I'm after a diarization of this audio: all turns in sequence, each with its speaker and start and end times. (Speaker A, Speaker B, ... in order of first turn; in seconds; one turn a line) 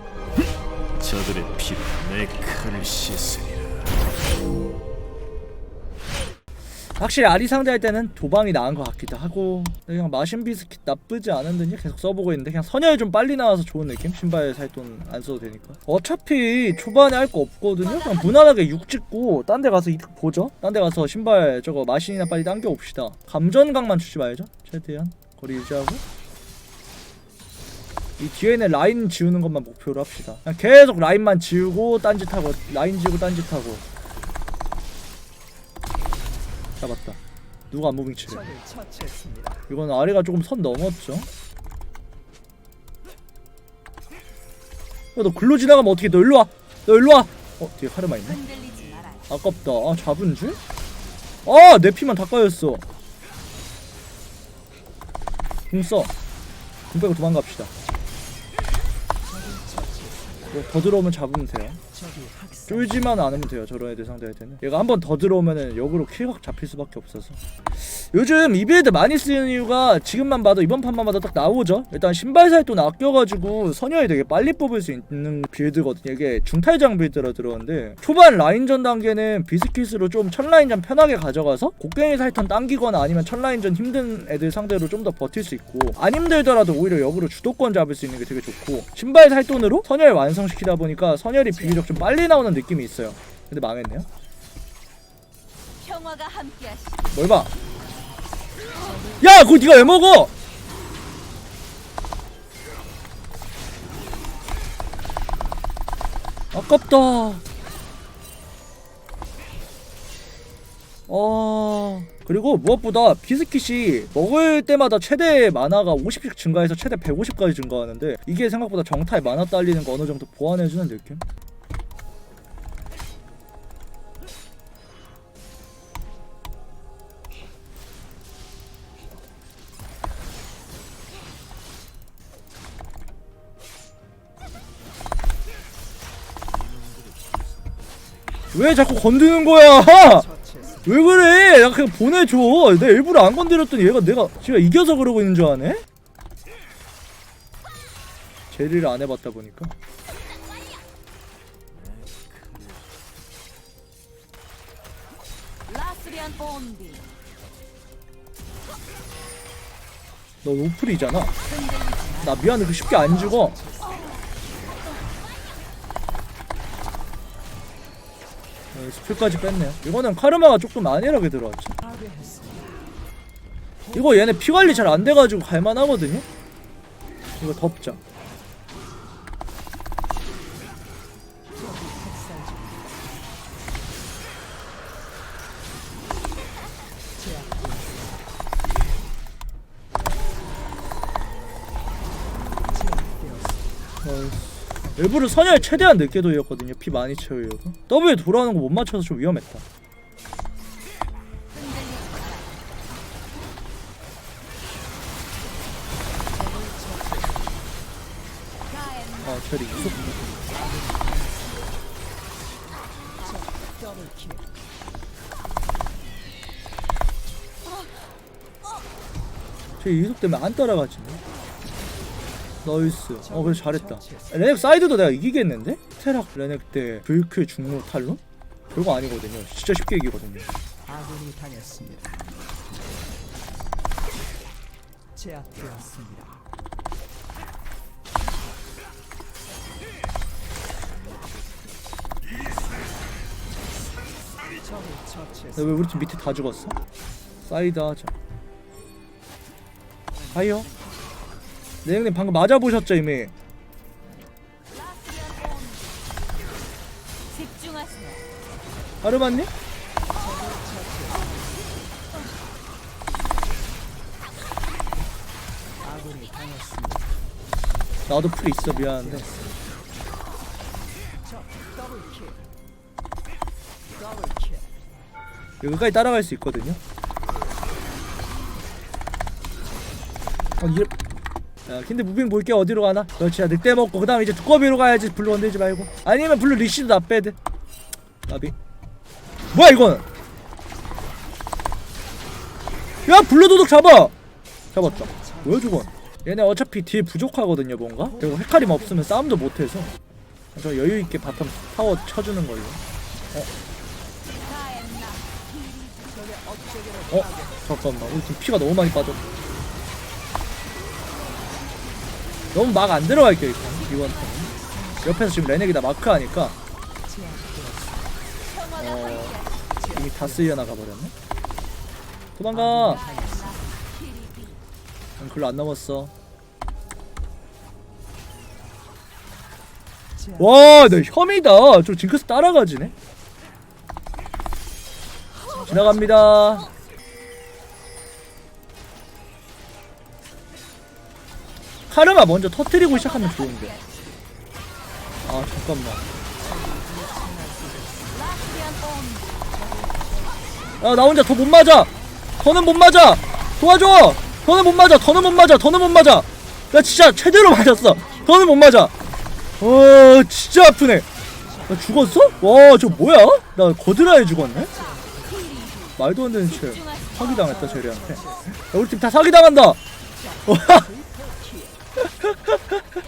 Speaker A: 1.0-4.0
Speaker B: 6.8-26.0
Speaker B: 28.2-33.8
Speaker B: 36.8-37.2
Speaker B: 37.7-38.5
Speaker C: 38.7-39.5
Speaker B: 39.7-41.3
Speaker B: 45.1-48.4
Speaker D: 48.4-49.2
Speaker B: 49.3-50.6
Speaker B: 51.4-52.8
Speaker B: 55.7-56.1
Speaker B: 56.9-57.7
Speaker C: 59.4-60.0
Speaker B: 60.5-61.8
Speaker C: 62.0-62.5
Speaker B: 62.7-94.1
Speaker D: 95.8-97.0
Speaker B: 97.1-97.5
Speaker B: 99.0-100.3
Speaker B: 106.5-107.4
Speaker B: 111.1-121.2
Speaker C: 136.6-137.8
Speaker B: 138.5-140.3
Speaker B: 140.8-145.8
Speaker B: 148.5-149.7
Speaker C: 151.8-152.8
Speaker D: 155.7-157.0
Speaker B: 160.4-161.3
Speaker D: 161.5-162.0
Speaker B: 162.2-163.6
Speaker D: 163.8-164.2
Speaker B: 168.7-171.8
Speaker C: 172.0-172.4
Speaker B: 173.9-176.2
Speaker B: 177.4-178.0
Speaker B: 194.0-199.6
Speaker D: 201.5-202.4
Speaker D: 208.7-209.2
Speaker B: 209.2-210.3
Speaker B: 219.8-221.2
Speaker B: 222.6-228.2
Speaker B: 228.7-230.5
Speaker C: 231.0-232.0
Speaker C: 235.5-236.1
Speaker C: 241.5-241.7
Speaker B: 245.5-246.8
Speaker B: 247.4-248.1
Speaker B: 250.3-250.7
Speaker B: 251.8-253.3
Speaker D: 254.7-255.9
Speaker D: 257.3-258.2
Speaker B: 259.0-259.5
Speaker C: 260.3-261.0
Speaker C: 266.1-266.9
Speaker B: 268.1-269.3
Speaker B: 275.6-276.8
Speaker B: 280.6-280.9
Speaker B: 281.7-287.4
Speaker B: 288.3-288.5
Speaker B: 289.5-290.1
Speaker B: 293.1-294.1
Speaker B: 294.7-299.9
Speaker B: 300.5-302.8
Speaker D: 304.4-306.9
Speaker B: 307.1-309.2
Speaker B: 312.5-316.6
Speaker C: 317.2-317.7
Speaker D: 318.5-319.5
Speaker B: 318.7-321.1
Speaker B: 322.4-323.1
Speaker D: 323.1-324.6
Speaker B: 325.2-326.1
Speaker B: 330.4-332.9
Speaker B: 335.6-336.7
Speaker B: 341.9-343.7
Speaker B: 345.2-346.0
Speaker C: 346.5-347.9
Speaker D: 348.1-349.4
Speaker B: 350.8-358.9
Speaker B: 359.6-361.1
Speaker B: 361.6-365.0
Speaker D: 364.8-365.9
Speaker B: 366.0-369.8
Speaker D: 366.8-367.2
Speaker B: 370.4-370.9
Speaker C: 371.3-371.6
Speaker B: 372.0-372.7